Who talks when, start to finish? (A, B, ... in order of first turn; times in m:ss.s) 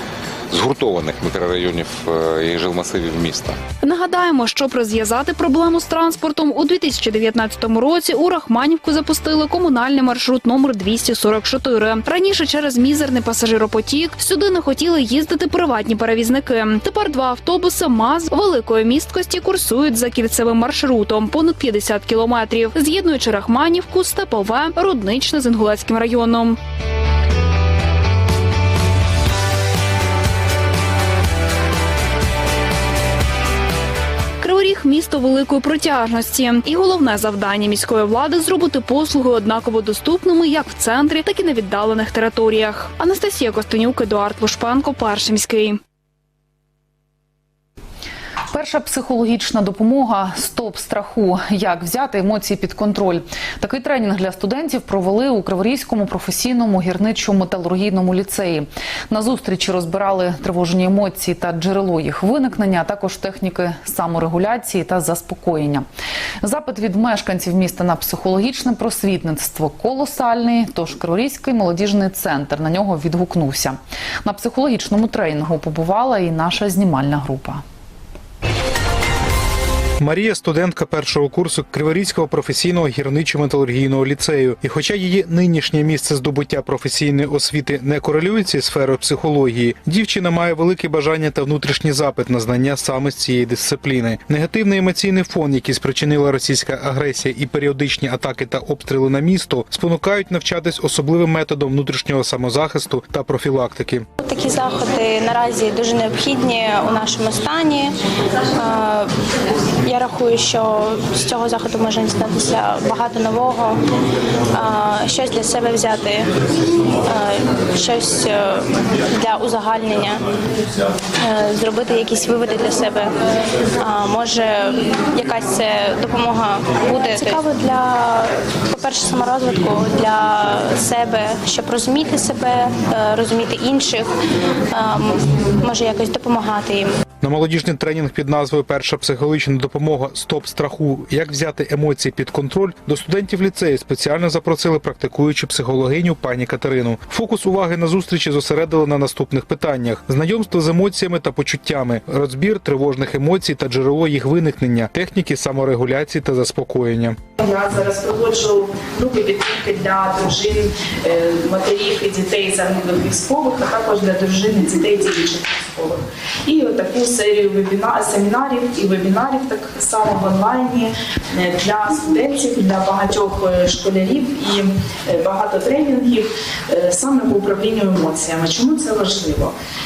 0:00.5-0:03.6 A
0:03.8-0:26.6 B
0:34.4-0:45.8 B
0:48.5-1:05.9 C
1:06.4-1:17.6 C
1:20.0-1:44.1 D
1:44.2-1:47.9 E
1:48.6-1:49.1 E
1:49.8-1:53.8 E
1:54.5-1:56.3 E
1:57.1-2:00.2 E
2:01.2-2:03.1 E
2:03.8-2:14.1 E
2:14.7-2:16.9 E
2:17.2-2:37.2 D
2:37.4-2:59.5 F